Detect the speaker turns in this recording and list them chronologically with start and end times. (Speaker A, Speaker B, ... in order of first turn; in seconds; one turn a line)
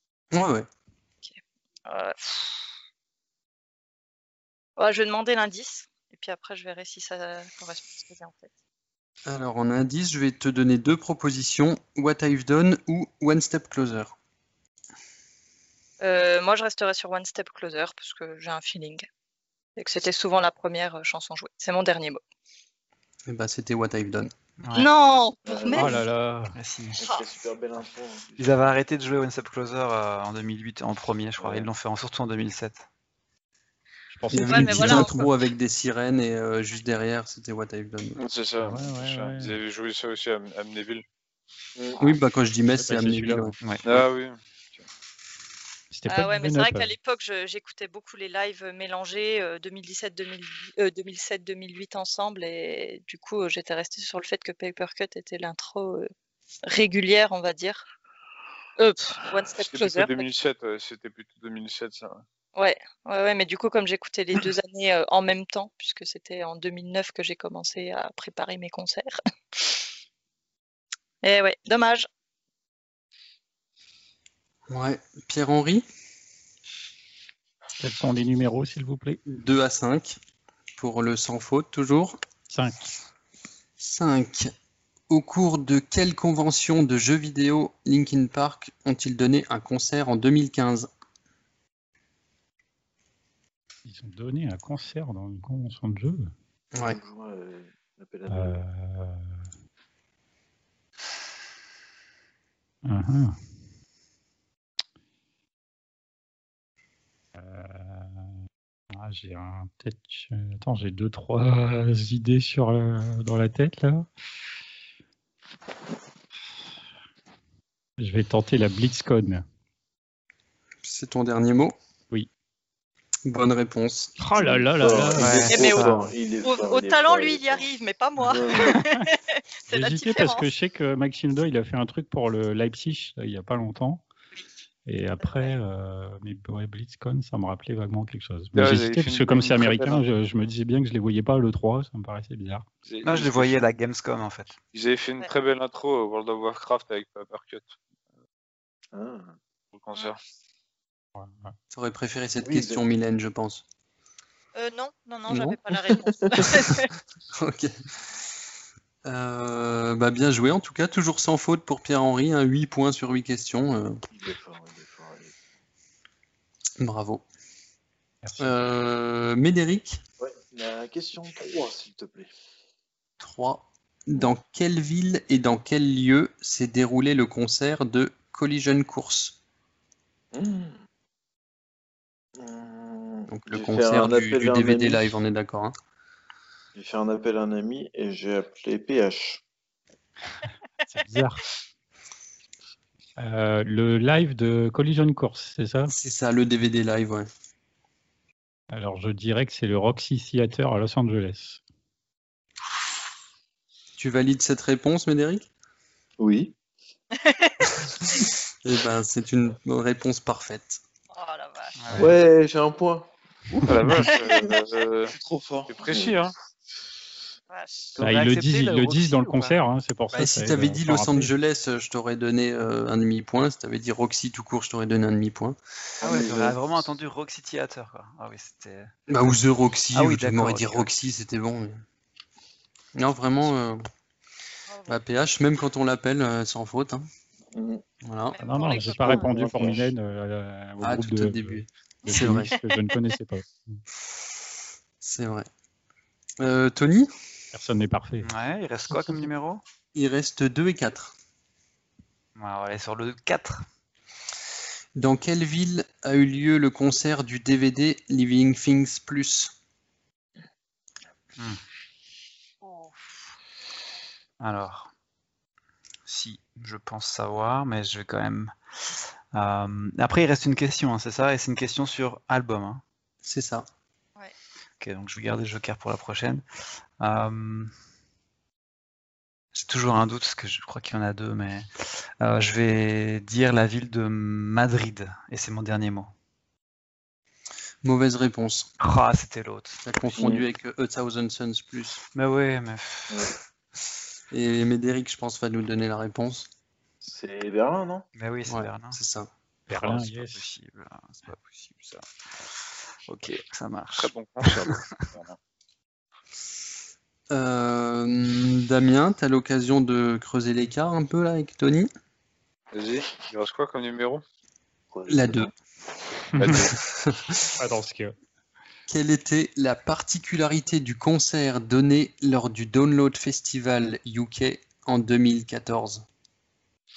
Speaker A: 0.3-0.7
Speaker B: 1.2-2.6
Speaker B: 4.8-8.5
Speaker A: 9.3-14.2
Speaker B: 16.0-19.1
Speaker B: 19.8-22.2
Speaker A: 23.3-24.3
Speaker C: 24.6-24.9
Speaker B: 24.7-26.0
Speaker D: 25.4-26.0
Speaker E: 25.7-26.6
Speaker C: 26.5-27.0
Speaker B: 27.0-27.3
Speaker D: 27.0-28.7
Speaker C: 28.4-32.9
Speaker D: 31.4-31.7
Speaker E: 34.1-35.3
Speaker A: 34.3-38.2
Speaker B: 34.3-35.2
Speaker F: 38.1-41.0
Speaker E: 38.6-39.6
Speaker A: 42.0-43.5
Speaker E: 42.7-43.6
Speaker F: 43.8-44.9
Speaker E: 45.9-46.9
Speaker B: 46.1-56.1
Speaker B: 56.6-57.9
Speaker B: 58.8-60.3
Speaker F: 59.4-62.2
Speaker B: 62.5-69.8
Speaker B: 71.2-72.1
Speaker A: 74.7-75.8
Speaker E: 77.8-79.2
Speaker A: 79.3-80.2
Speaker A: 80.8-82.2
Speaker E: 82.5-82.9
Speaker A: 83.8-84.5
Speaker A: 85.1-90.9
Speaker E: 93.8-96.3
Speaker A: 96.7-97.0
Speaker D: 96.8-98.6
Speaker E: 98.3-99.4
Speaker E: 102.8-103.4
Speaker E: 107.3-108.3
Speaker E: 108.9-114.0
Speaker E: 118.0-119.4
Speaker A: 120.8-121.8
Speaker A: 123.2-124.2
Speaker E: 124.2-125.5
Speaker D: 124.3-127.7
Speaker C: 125.2-126.1
Speaker B: 125.5-130.5
Speaker D: 128.2-128.8
Speaker E: 129.7-134.0
Speaker E: 134.8-142.7
Speaker B: 135.2-135.5
Speaker F: 138.5-140.0
Speaker F: 142.8-143.7
Speaker C: 143.0-144.6
Speaker F: 144.7-147.7
Speaker D: 148.9-149.4
Speaker F: 149.7-150.2
Speaker E: 151.2-151.5
Speaker A: 151.7-153.6
Speaker D: 152.4-152.8
Speaker B: 154.5-156.9
Speaker A: 155.3-155.6
Speaker A: 156.5-157.7
Speaker A: 159.0-164.0
Speaker D: 164.1-165.3
Speaker A: 166.8-167.2
Speaker E: 168.2-168.6
Speaker A: 168.4-170.0
Speaker D: 170.2-172.3
Speaker A: 173.2-179.4
Speaker D: 180.3-180.8
Speaker D: 182.3-185.2
Speaker A: 183.3-185.8
Speaker D: 186.7-189.4
Speaker E: 190.9-191.4
Speaker E: 193.2-195.9
Speaker A: 195.9-197.3
Speaker E: 198.7-201.6
Speaker A: 203.9-205.5
Speaker D: 206.2-206.6
Speaker B: 207.2-207.7
Speaker A: 208.6-210.8
Speaker B: 211.1-211.9
Speaker C: 211.8-212.1
Speaker D: 211.9-214.5
Speaker F: 213.6-215.1
Speaker B: 214.0-214.6
Speaker D: 215.1-216.2
Speaker F: 215.7-216.3
Speaker B: 217.5-218.0
Speaker C: 217.9-219.6
Speaker E: 218.0-221.3
Speaker A: 220.1-225.6
Speaker D: 226.0-226.8
Speaker C: 226.0-228.9
Speaker A: 229.1-231.8
Speaker C: 229.9-230.9
Speaker A: 232.9-233.8
Speaker B: 234.7-235.0
Speaker A: 234.9-237.1
Speaker D: 237.5-237.8
Speaker A: 238.0-238.3
Speaker B: 238.3-239.3
Speaker E: 238.4-243.8
Speaker D: 238.9-239.9
Speaker A: 240.8-242.6
Speaker B: 242.1-242.7
Speaker A: 245.0-245.5
Speaker A: 246.4-247.1
Speaker E: 247.5-248.3
Speaker C: 248.2-249.6
Speaker A: 249.9-251.1
Speaker C: 252.3-253.6
Speaker A: 254.9-259.5
Speaker B: 262.6-262.9
Speaker C: 264.4-264.9
Speaker C: 266.1-268.5
Speaker C: 269.3-272.8
Speaker A: 273.2-273.7
Speaker C: 274.8-276.4
Speaker C: 277.0-277.7
Speaker C: 279.5-286.1
Speaker A: 287.8-288.7
Speaker C: 288.8-289.8
Speaker A: 289.8-292.0
Speaker D: 290.1-290.5
Speaker C: 292.1-293.3
Speaker D: 293.1-293.3
Speaker A: 294.3-296.5
Speaker D: 297.0-298.0
Speaker C: 298.1-299.0
Speaker A: 298.5-299.3
Speaker E: 299.7-300.5
Speaker C: 299.7-305.1
Speaker F: 303.9-305.4
Speaker A: 307.3-311.9
Speaker F: 312.7-314.2
Speaker D: 314.9-315.5
Speaker A: 315.1-315.5
Speaker F: 316.3-316.8
Speaker A: 316.7-317.3
Speaker E: 317.6-318.1
Speaker A: 318.9-326.1